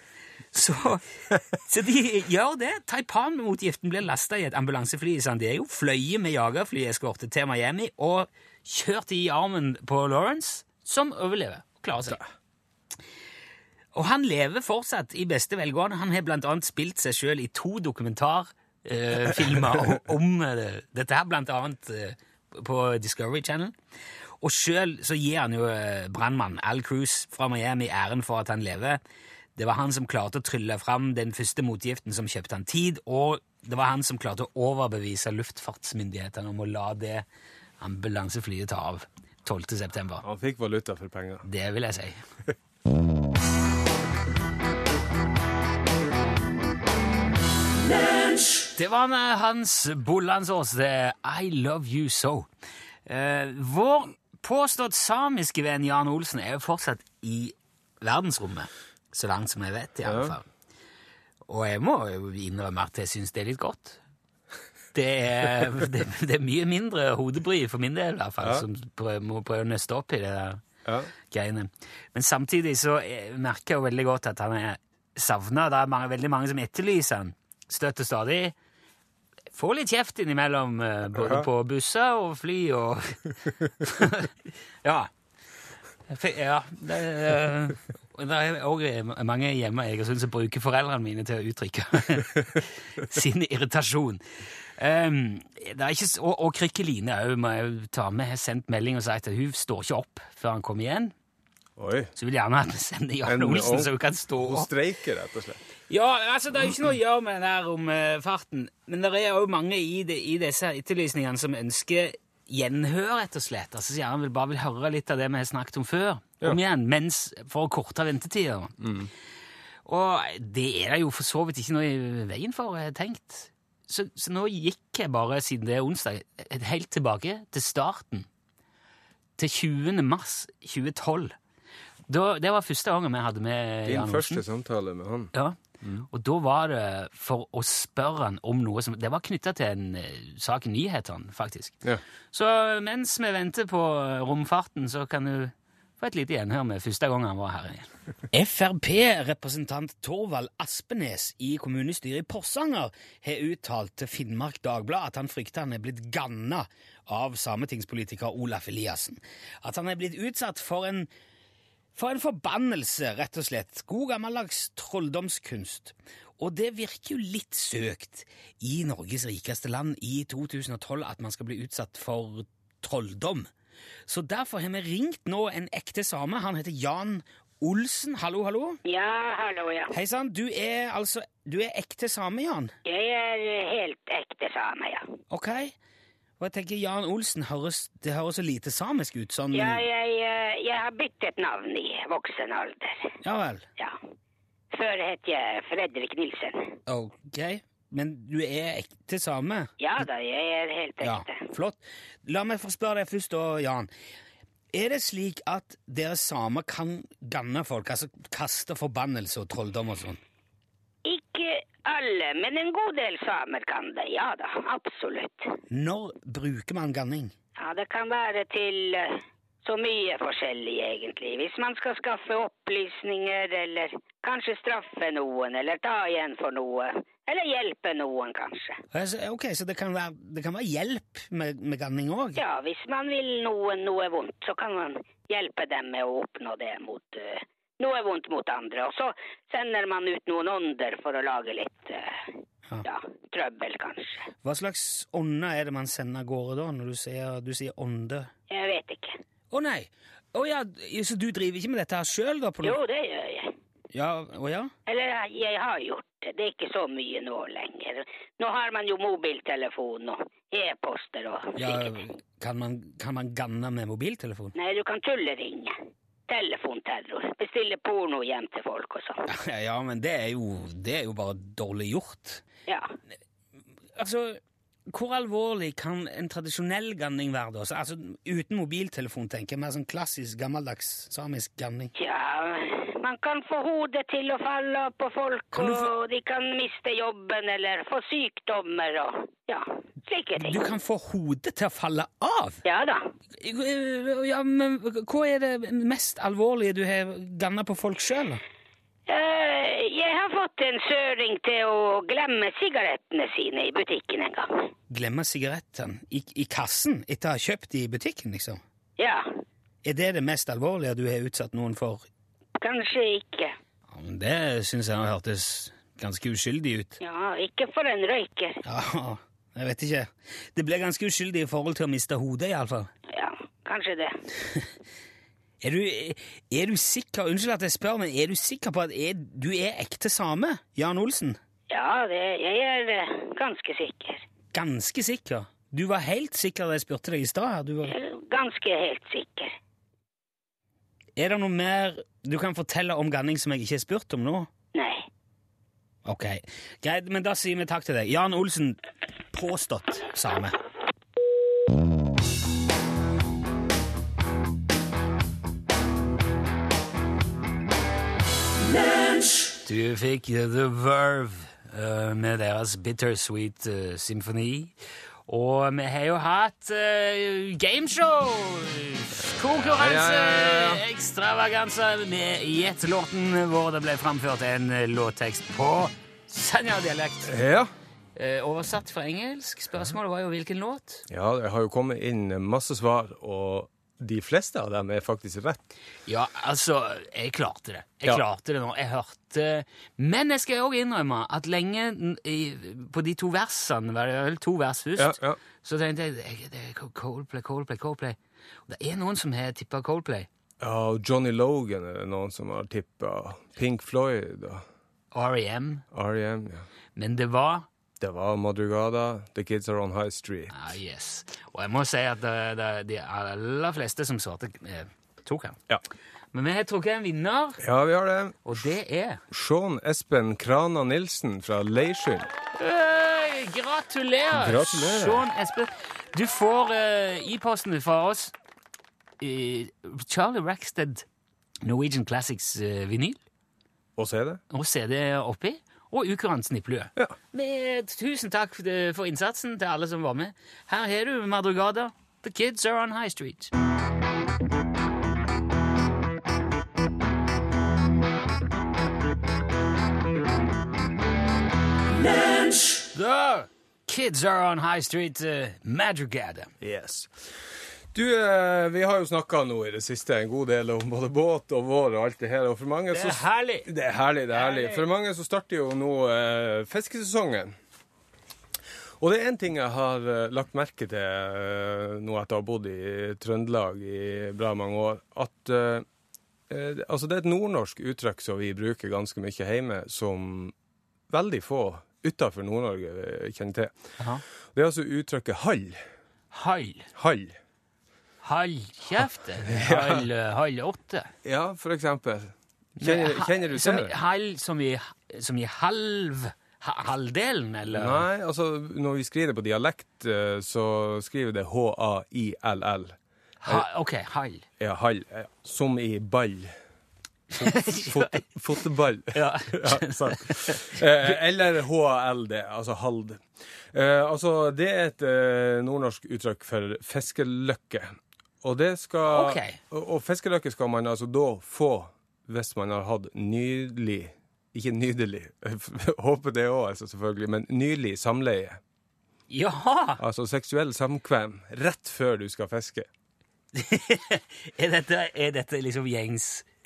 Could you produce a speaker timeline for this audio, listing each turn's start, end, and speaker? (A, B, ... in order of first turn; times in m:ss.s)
0:00.5-0:12.2 A
0:13.9-0:23.7 A
0:24.4-0:29.0 A
0:29.6-0:37.2 A
0:37.8-0:40.2 A
0:40.2-0:41.5 B
0:41.4-0:42.2 A
0:48.7-0:52.5 A
0:53.0-1:00.5 A
1:00.0-1:00.3 B
1:01.5-1:04.0 A
1:04.9-1:10.6 A
1:10.8-1:11.1 B
1:11.3-1:18.5 A
1:19.5-1:24.3 A
1:21.1-1:21.5 B
1:24.8-1:25.1 A
1:26.1-1:41.1 A
1:41.8-1:42.1 B
1:42.2-1:44.7 A
1:43.2-1:45.6 B
1:45.9-1:58.9 A
1:58.8-1:59.1 B
1:59.8-2:08.3 A
2:09.4-2:11.3 A
2:12.1-2:14.4 A
2:13.8-2:16.0 B
2:15.3-2:41.1 A
2:41.9-2:53.5 A
2:54.1-2:58.8 A
2:58.8-2:59.9 C
2:59.9-3:02.7 A
3:02.8-3:05.1 C
3:05.3-3:05.7 A
3:06.4-3:09.8 A
3:09.5-3:13.1 C
3:13.2-3:13.6 A
3:14.7-3:16.7 C
3:16.9-3:19.7 A
3:19.8-3:21.4 C
3:21.0-3:23.9 A
3:24.7-3:30.2 A
3:31.0-3:35.5 C
3:35.7-3:37.3 A
3:37.6-3:48.8 C
3:48.9-3:52.4 A
3:52.4-4:02.1 C
4:02.8-4:04.2 C
4:04.4-4:08.3 A
4:08.5-4:09.2 C
4:09.5-4:12.8 A
4:12.6-4:13.5 C
4:13.9-4:14.7 A
4:14.9-4:21.9 C
4:21.6-4:24.5 A
4:24.6-4:25.8 C
4:26.3-4:29.2 C
4:29.3-4:32.4 A
4:32.7-4:32.9 C
4:34.0-4:41.9 A
4:42.0-4:50.6 C
4:45.5-4:45.9 A
4:50.4-4:52.6 A
4:52.6-4:53.1 C
4:53.4-4:58.4 A
4:59.1-5:04.7 C
5:04.9-5:08.6 A
5:09.0-5:09.3 C
5:09.8-5:12.0 A
5:12.6-5:13.6 C
5:13.9-5:17.0 A
5:17.0-5:18.6 C
5:18.6-5:22.9 A
5:23.1-5:24.2 C
5:25.6-5:31.4 A
5:31.7-5:34.2 C
5:34.5-5:37.9 A
5:37.8-5:39.6 C
5:41.2-5:44.5 A
5:44.7-5:45.1 C
5:46.0-5:48.8 A
5:49.3-5:50.5 A
5:59.6-6:04.7 A
6:05.3-6:17.4 A
6:09.2-6:10.8 B
6:17.3-6:17.7 B
6:18.2-6:21.0 A
6:21.1-6:25.6 B
6:26.1-6:40.3 A
6:35.0-6:35.4 B
6:40.6-6:44.6 B
6:45.1-6:45.8 A
6:45.9-6:46.6 B
6:47.0-6:47.7 A
6:48.0-6:50.6 B
6:50.5-6:55.6 A
6:56.3-6:57.6 A
6:57.6-6:58.5 B
6:58.4-6:59.2 A
6:59.3-7:02.3 B
7:02.5-7:08.3 A
7:04.3-7:05.2 B
7:09.2-7:11.0 A
7:11.6-7:13.2 A
7:14.0-7:14.4 B
7:14.5-7:23.5 A
7:32.9-7:36.5 A
7:36.6-7:37.2 B
7:37.9-7:47.5 B
7:42.9-7:43.7 A
7:44.3-7:44.8 A
7:49.0-7:55.8 B
7:56.5-8:00.5 B
8:01.1-8:03.9 B
8:04.5-8:05.8 B
8:06.3-8:06.9 A
8:06.9-8:07.4 B
8:08.2-8:11.1 A
8:09.5-8:10.0 B
8:11.2-8:13.9 B
8:12.8-8:18.0 A
8:17.7-8:23.0 B
8:23.4-8:24.4 A
8:24.6-8:26.5 B
8:27.3-8:28.3 A
8:27.4-8:48.6 B
8:29.1-8:31.1 A
8:39.1-8:39.6 A
8:49.3-8:50.0 A
8:50.0-8:52.9 B
8:53.5-8:56.4 A